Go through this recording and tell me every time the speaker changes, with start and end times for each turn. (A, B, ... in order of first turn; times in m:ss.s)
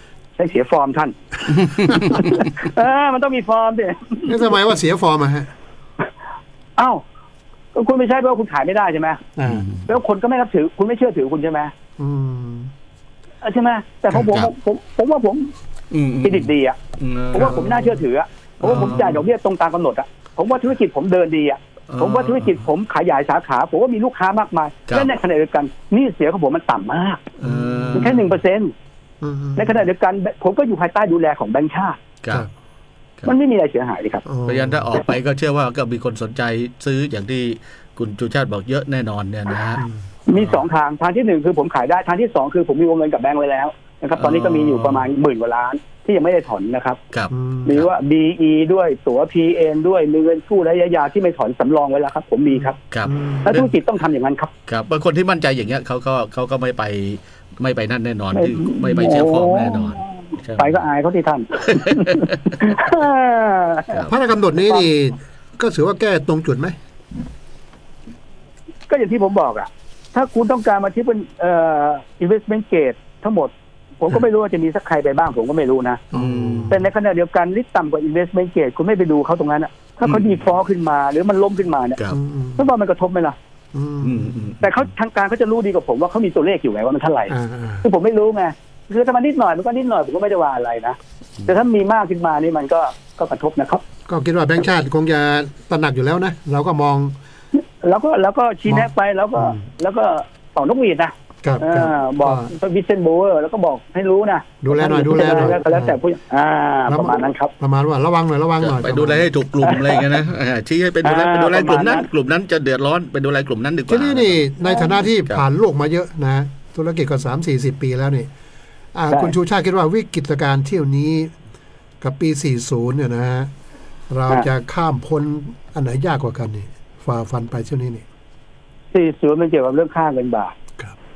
0:00.4-0:01.2 A
0:01.6-0:02.3 B
0:01.8-0:04.5 A
0:04.2-0:05.5 C
0:06.8-0:07.0 A
0:07.7-0:09.2 A
0:09.4-0:09.7 C
0:09.4-0:09.9 B
0:09.9-0:11.7 A
0:12.0-0:12.7 C
0:13.4-0:15.5 A
0:14.1-0:14.5 B
0:15.9-0:18.0 B
0:16.2-0:16.8 A
0:17.3-0:27.3 A
0:17.4-0:17.9 C
0:18.6-0:19.2 B
0:18.6-0:19.2 C
0:21.9-0:22.6 B
0:27.4-0:28.3 B
0:27.4-0:28.2 C
0:28.0-0:28.7 A
0:29.2-0:29.8 C
0:29.6-0:32.0 A
0:33.2-0:34.2 A
0:34.2-0:34.9 C
0:34.5-0:40.6 B
0:39.8-0:40.0 C
0:40.3-0:47.0 A
0:44.2-0:45.1 B
0:47.1-0:47.9 B
0:47.3-0:47.8 C
0:47.6-0:52.8 A
0:52.5-0:53.8 C
0:53.4-0:54.5 A
0:54.7-1:00.8 B
0:58.4-1:04.0 A
1:01.7-1:02.6 B
1:03.9-1:04.1 B
1:04.1-1:06.8 C
1:08.9-1:16.0 A
1:16.1-1:16.9 C
1:16.1-1:16.8 B
1:16.7-1:22.0 A
1:20.0-1:20.4 B
1:22.1-1:22.6 C
1:22.6-1:23.4 A
1:23.7-1:24.6 C
1:24.0-1:24.6 B
1:24.6-1:33.8 A
1:27.3-1:27.9 C
1:34.1-1:37.1 C
1:37.5-1:47.5 A
1:38.7-1:39.6 C
1:41.4-1:42.5 C
1:44.6-1:46.0 C
1:46.9-1:49.3 C
1:48.6-1:54.4 B
1:49.6-1:50.1 A
1:51.0-1:52.1 A
1:53.9-1:58.3 C
1:54.6-1:54.9 A
1:58.9-2:01.3 C
2:02.0-2:03.5 C
2:04.1-2:08.0 C
2:08.9-2:10.5 A